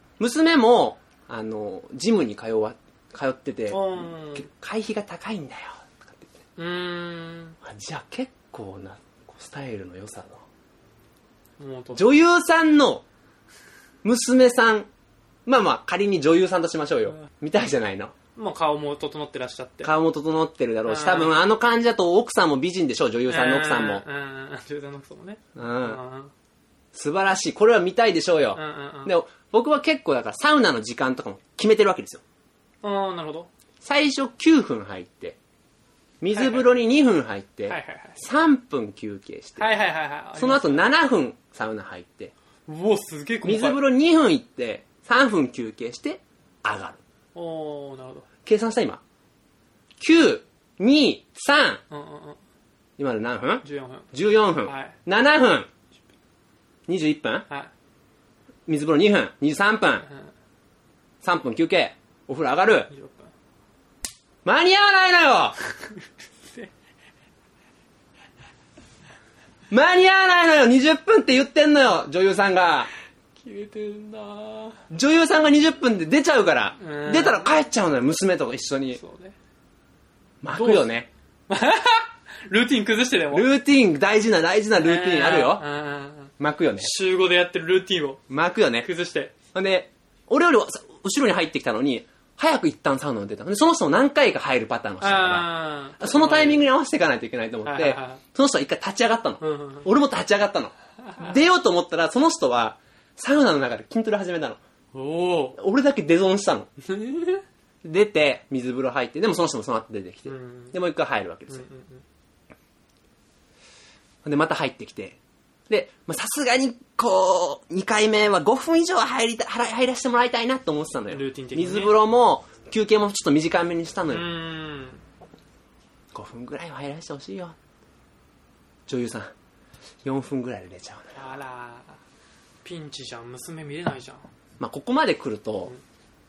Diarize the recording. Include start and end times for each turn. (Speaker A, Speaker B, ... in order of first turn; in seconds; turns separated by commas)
Speaker A: 0.2-6.4, Speaker B: 3.7-4.5, Speaker B: 6.6-7.6, Speaker A: 7.6-10.4, Speaker B: 11.6-12.1, Speaker A: 11.9-13.1, Speaker A: 14.0-14.9, Speaker A: 15.5-18.1, Speaker B: 18.4-19.9, Speaker A: 19.8-24.0, Speaker B: 20.9-21.3, Speaker B: 23.3-26.3, Speaker A: 25.6-26.0, Speaker A: 26.9-32.2, Speaker B: 28.5-29.1, Speaker B: 32.8-33.5, Speaker A: 33.8-35.4, Speaker A: 36.2-39.7, Speaker B: 36.3-36.7, Speaker B: 37.7-38.2, Speaker B: 39.6-40.9, Speaker A: 40.4-42.3, Speaker B: 42.7-43.8, Speaker A: 43.4-47.0, Speaker B: 47.4-48.3, Speaker A: 48.5-49.0, Speaker A: 50.0-51.8, Speaker B: 51.9-52.4, Speaker A: 53.0-55.7, Speaker B: 53.6-54.1, Speaker B: 54.6-55.0, Speaker A: 56.9-57.5, Speaker A: 58.7-60.1, Speaker A: 61.2-62.9, Speaker B: 62.9-63.3, Speaker A: 64.4-65.6, Speaker B: 66.5-66.7, Speaker A: 69.7-72.9, Speaker B: 73.4-74.8, Speaker A: 74.9-79.0, Speaker B: 76.8-77.5, Speaker B: 79.0-79.3, Speaker A: 80.4-81.1, Speaker B: 80.5-80.9, Speaker B: 81.5-83.5, Speaker A: 83.3-85.7, Speaker B: 84.8-88.2, Speaker A: 86.4-86.9, Speaker A: 88.3-88.9, Speaker B: 88.8-89.3, Speaker A: 89.5-104.6, Speaker B: 95.0-96.7, Speaker B: 97.6-98.2, Speaker B: 99.4-99.9, Speaker B: 104.9-105.6, Speaker A: 105.6-106.7, Speaker B: 106.8-107.4, Speaker A: 107.8-111.7, Speaker B: 110.3-110.8, Speaker B: 111.5-112.0, Speaker A: 114.2-124.3, Speaker B: 121.1-122.0, Speaker B: 124.1-125.0, Speaker A: 126.1-127.6, Speaker A: 128.9-129.3, Speaker A: 130.0-131.3, Speaker B: 131.1-132.0, Speaker B: 132.6-134.3, Speaker A: 134.6-135.7